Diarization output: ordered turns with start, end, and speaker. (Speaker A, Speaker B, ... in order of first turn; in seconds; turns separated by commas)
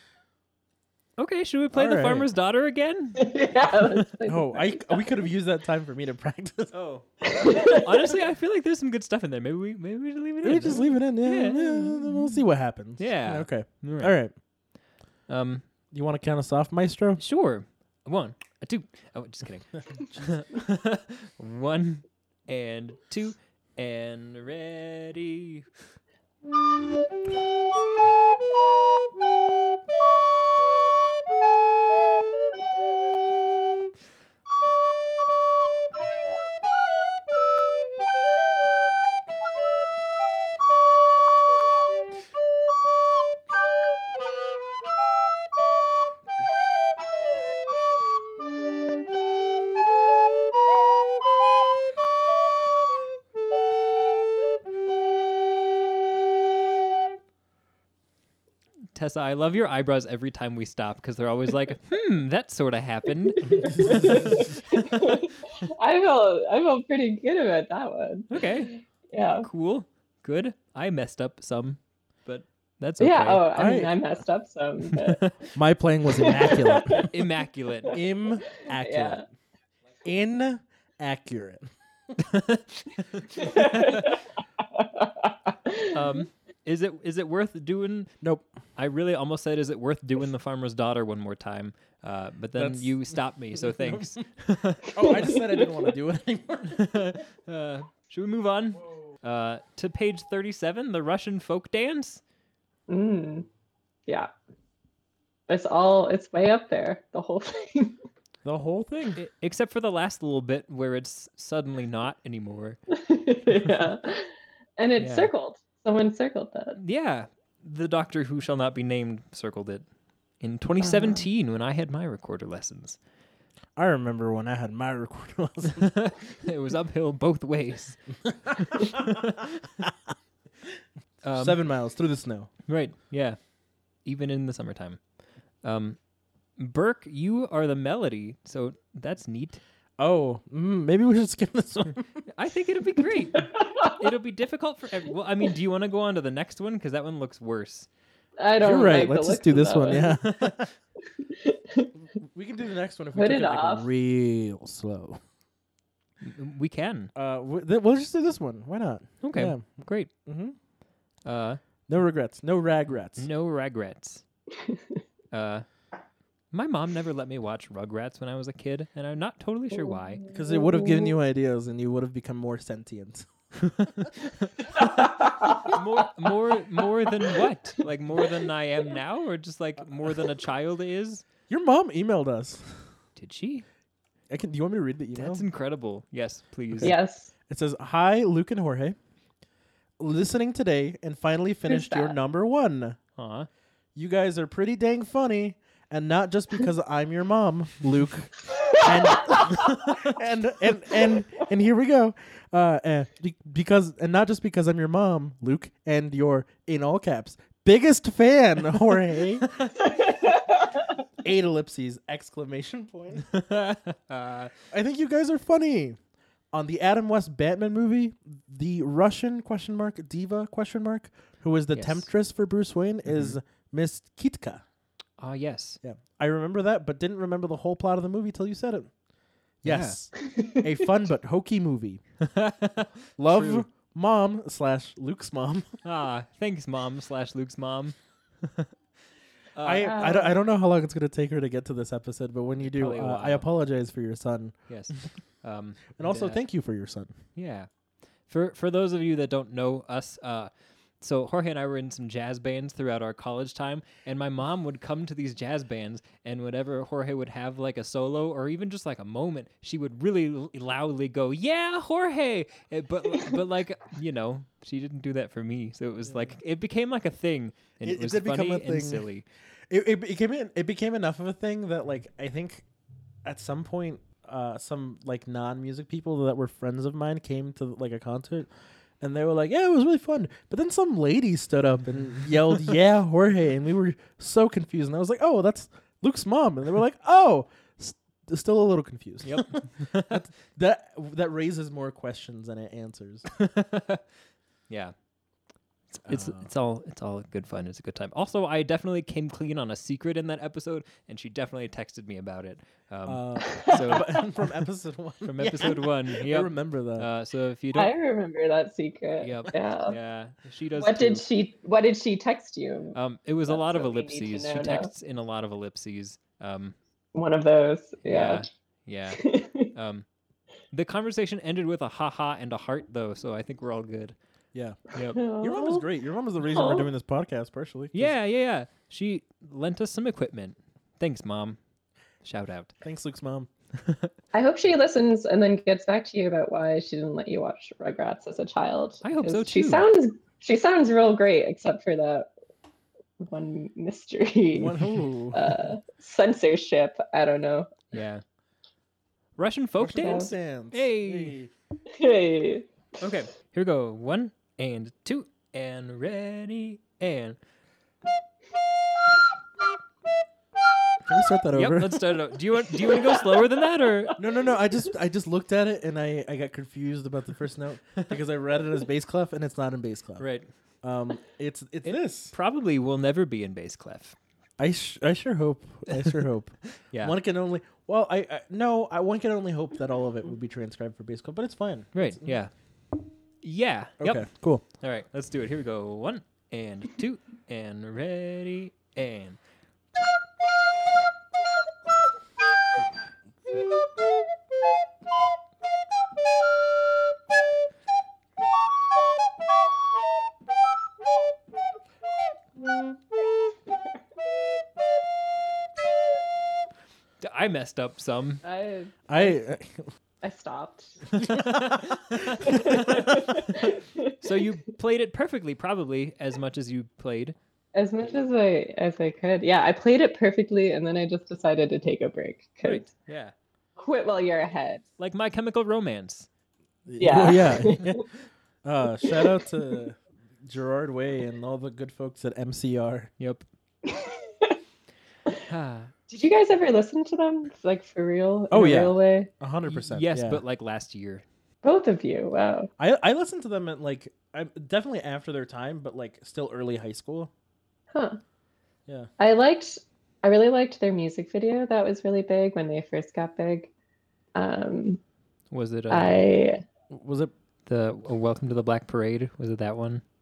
Speaker A: 1.2-3.3, Speaker B: 1.7-2.3, Speaker C: 3.2-5.1, Speaker B: 4.3-6.7, Speaker A: 6.7-12.4, Speaker C: 7.3-7.8, Speaker B: 10.4-14.3, Speaker A: 13.0-14.1, Speaker A: 15.3-15.7, Speaker B: 15.9-17.2, Speaker A: 17.2-25.6, Speaker A: 59.0-64.5, Speaker C: 63.4-69.5, Speaker B: 63.6-64.5, Speaker A: 68.3-68.7, Speaker A: 69.4-73.5, Speaker C: 73.0-75.2, Speaker B: 73.5-73.9, Speaker A: 74.9-75.3, Speaker B: 75.5-77.1, Speaker C: 76.1-77.1, Speaker A: 77.0-78.0, Speaker B: 77.9-79.3, Speaker C: 78.6-79.2, Speaker B: 80.0-81.7, Speaker A: 82.2-84.2, Speaker C: 83.4-84.2, Speaker C: 84.7-86.2, Speaker A: 85.9-88.1, Speaker B: 88.2-88.5, Speaker A: 88.8-95.1, Speaker B: 92.6-93.0, Speaker B: 93.6-94.1, Speaker B: 94.9-96.9, Speaker C: 95.0-95.8, Speaker A: 96.7-102.2, Speaker C: 102.9-103.5, Speaker C: 105.5-108.0, Speaker B: 108.4-109.2, Speaker A: 109.1-112.8, Speaker C: 112.9-116.8, Speaker A: 115.0-115.3, Speaker A: 116.8-119.8, Speaker A: 120.4-123.0, Speaker C: 120.9-121.2, Speaker B: 123.8-125.9, Speaker A: 125.7-128.0, Speaker B: 128.3-129.1, Speaker A: 128.5-129.8, Speaker A: 131.2-131.6, Speaker B: 131.4-132.5, Speaker A: 132.7-133.4, Speaker A: 134.1-135.0, Speaker A: 135.6-136.0, Speaker A: 136.6-139.6, Speaker B: 140.0-142.2, Speaker A: 142.3-147.9, Speaker C: 143.3-144.0, Speaker C: 148.4-150.2, Speaker B: 148.6-150.7, Speaker A: 149.9-150.6, Speaker C: 151.2-151.9, Speaker B: 152.2-155.2, Speaker C: 153.2-153.9, Speaker A: 156.2-157.1, Speaker B: 157.2-159.6, Speaker A: 159.2-160.1, Speaker B: 160.2-160.6, Speaker A: 161.2-161.6, Speaker B: 161.9-163.3, Speaker A: 163.2-164.2, Speaker A: 165.3-165.7, Speaker A: 166.5-170.2, Speaker C: 169.9-171.1, Speaker B: 170.3-173.3, Speaker A: 173.7-181.2, Speaker B: 173.8-174.1, Speaker C: 175.0-175.7, Speaker B: 181.5-182.7, Speaker A: 183.2-183.7, Speaker B: 184.3-185.4, Speaker A: 185.2-186.9, Speaker C: 186.8-187.3, Speaker B: 187.5-189.0, Speaker B: 190.0-193.0, Speaker C: 191.7-192.2, Speaker A: 193.2-193.5, Speaker B: 193.9-209.5, Speaker C: 198.8-199.4, Speaker A: 209.5-209.8, Speaker C: 210.0-210.6, Speaker B: 211.2-213.3, Speaker A: 213.3-214.5, Speaker B: 214.7-216.0, Speaker B: 216.5-224.6, Speaker A: 221.7-222.1, Speaker A: 223.1-223.4, Speaker A: 225.2-225.8, Speaker B: 225.8-228.9, Speaker B: 229.6-232.0, Speaker A: 229.7-230.0, Speaker C: 230.2-230.7, Speaker A: 232.2-233.7, Speaker B: 233.2-235.8, Speaker A: 235.8-238.7, Speaker A: 239.6-239.9, Speaker B: 239.6-244.6, Speaker C: 239.8-240.3, Speaker A: 242.7-243.5, Speaker A: 244.7-246.4, Speaker B: 246.0-247.1, Speaker A: 247.3-247.7, Speaker A: 248.3-269.3, Speaker B: 267.8-269.1, Speaker B: 269.7-272.6, Speaker B: 273.2-278.5, Speaker B: 279.0-293.2, Speaker A: 289.3-290.2, Speaker A: 293.3-294.0, Speaker A: 294.7-294.9, Speaker A: 295.9-304.1, Speaker B: 296.1-296.5, Speaker B: 303.1-307.1, Speaker C: 303.5-304.2, Speaker A: 305.2-307.9, Speaker C: 307.8-310.0, Speaker A: 309.2-311.3, Speaker C: 310.8-313.0, Speaker A: 312.9-316.8, Speaker C: 313.5-314.9, Speaker C: 317.1-318.4, Speaker A: 318.1-320.1, Speaker C: 319.1-319.7, Speaker A: 320.7-324.2, Speaker B: 324.5-324.8, Speaker A: 324.9-325.2, Speaker C: 325.1-325.9, Speaker B: 325.4-328.1, Speaker C: 326.4-326.9, Speaker A: 327.9-331.6, Speaker A: 332.2-332.7, Speaker B: 332.8-333.5, Speaker A: 333.8-334.1, Speaker C: 334.3-342.3, Speaker A: 339.0-339.9, Speaker C: 343.2-347.8, Speaker B: 344.6-345.5, Speaker A: 347.9-348.2, Speaker A: 349.4-351.4, Speaker B: 349.8-351.5, Speaker C: 350.0-350.3, Speaker C: 351.9-352.7, Speaker A: 353.0-357.4, Speaker B: 361.0-362.0, Speaker A: 361.5-364.2, Speaker B: 364.2-370.2, Speaker A: 370.2-370.5, Speaker B: 370.8-372.3, Speaker A: 371.9-374.2, Speaker B: 374.6-382.4, Speaker A: 375.9-376.2, Speaker A: 376.7-377.2, Speaker A: 381.9-382.5, Speaker A: 383.4-389.4, Speaker B: 384.0-384.6, Speaker A: 407.2-408.4, Speaker C: 408.4-409.4, Speaker B: 409.1-409.9, Speaker C: 410.2-411.0, Speaker B: 411.2-411.6, Speaker A: 411.2-413.1, Speaker C: 412.4-414.2, Speaker A: 414.2-417.4, Speaker C: 417.8-422.9, Speaker A: 422.6-423.3, Speaker C: 423.8-424.8, Speaker A: 425.0-426.3, Speaker B: 426.9-428.1, Speaker C: 427.0-428.0, Speaker B: 428.6-433.1, Speaker C: 429.0-429.6, Speaker A: 433.2-433.4, Speaker C: 433.8-434.6, Speaker A: 435.5-435.9, Speaker C: 436.1-439.3, Speaker B: 438.5-440.4, Speaker A: 439.7-441.2, Speaker C: 441.6-442.7, Speaker B: 442.8-447.3, Speaker C: 447.9-448.2, Speaker C: 449.2-453.7, Speaker C: 454.4-455.0, Speaker A: 455.5-456.2, Speaker C: 455.9-456.6, Speaker B: 456.9-457.3, Speaker A: 457.7-460.0